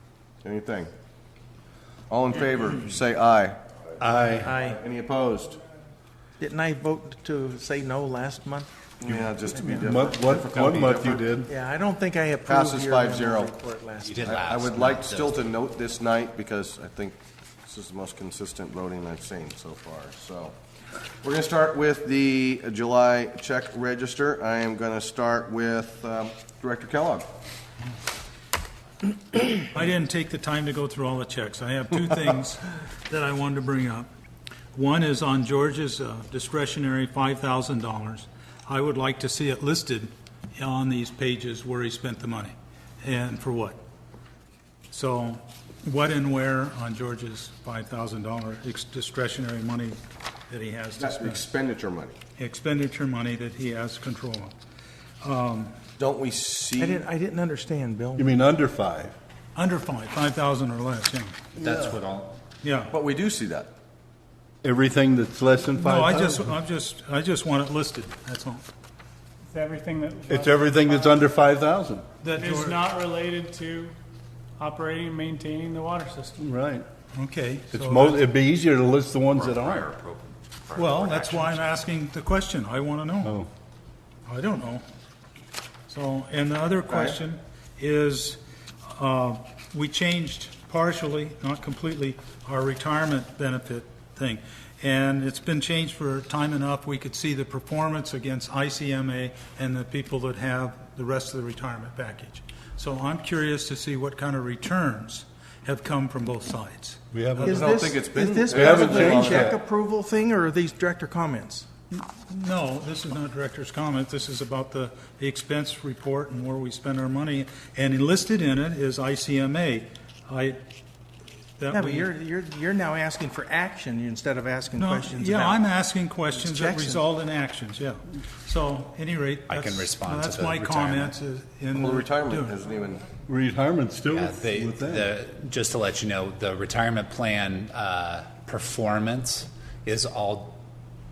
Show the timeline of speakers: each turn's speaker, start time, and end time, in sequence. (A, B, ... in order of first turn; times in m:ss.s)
0:00.4-0:00.9 A
0:02.1-0:03.6 A
0:04.0-0:04.5 B
0:04.4-0:04.8 C
0:04.6-0:05.6 A
0:06.4-0:08.7 C
0:09.0-0:11.3 A
0:09.0-0:11.5 B
0:09.5-0:10.2 C
0:11.4-0:14.4 C
0:12.4-0:13.5 A
0:14.0-0:15.4 D
0:14.2-0:20.5 A
0:21.2-0:27.2 A
0:29.5-0:34.1 E
0:34.7-0:43.8 E
0:44.9-0:50.0 E
0:50.5-0:51.4 E
0:51.0-0:52.2 A
0:52.4-0:54.5 E
0:55.2-0:55.7 E
0:56.0-0:57.1 A
0:56.7-0:58.3 C
0:58.2-0:59.1 B
0:59.5-1:01.4 E
1:01.6-1:02.4 D
1:01.6-1:02.0 B
1:02.6-1:02.9 E
1:02.9-1:03.7 A
1:04.6-1:06.5 B
1:05.8-1:08.6 E
1:09.5-1:11.2 F
1:10.3-1:12.0 B
1:12.2-1:12.8 E
1:12.3-1:14.0 F
1:14.6-1:16.4 F
1:16.4-1:16.8 B
1:17.1-1:18.2 E
1:17.7-1:19.9 B
1:19.3-1:21.7 D
1:20.7-1:23.4 E
1:24.3-1:24.8 E
1:25.9-1:47.6 E
1:26.9-1:27.2 A
1:47.1-1:49.6 B
1:47.4-1:51.7 C
1:47.5-1:49.6 A
1:51.9-2:00.6 E
2:01.6-2:02.1 E
2:01.7-2:05.7 C
2:04.8-2:12.6 E
2:06.3-2:07.1 C
2:09.5-2:11.2 D
2:11.7-2:13.0 A
2:13.2-2:15.1 B
2:14.1-2:20.6 D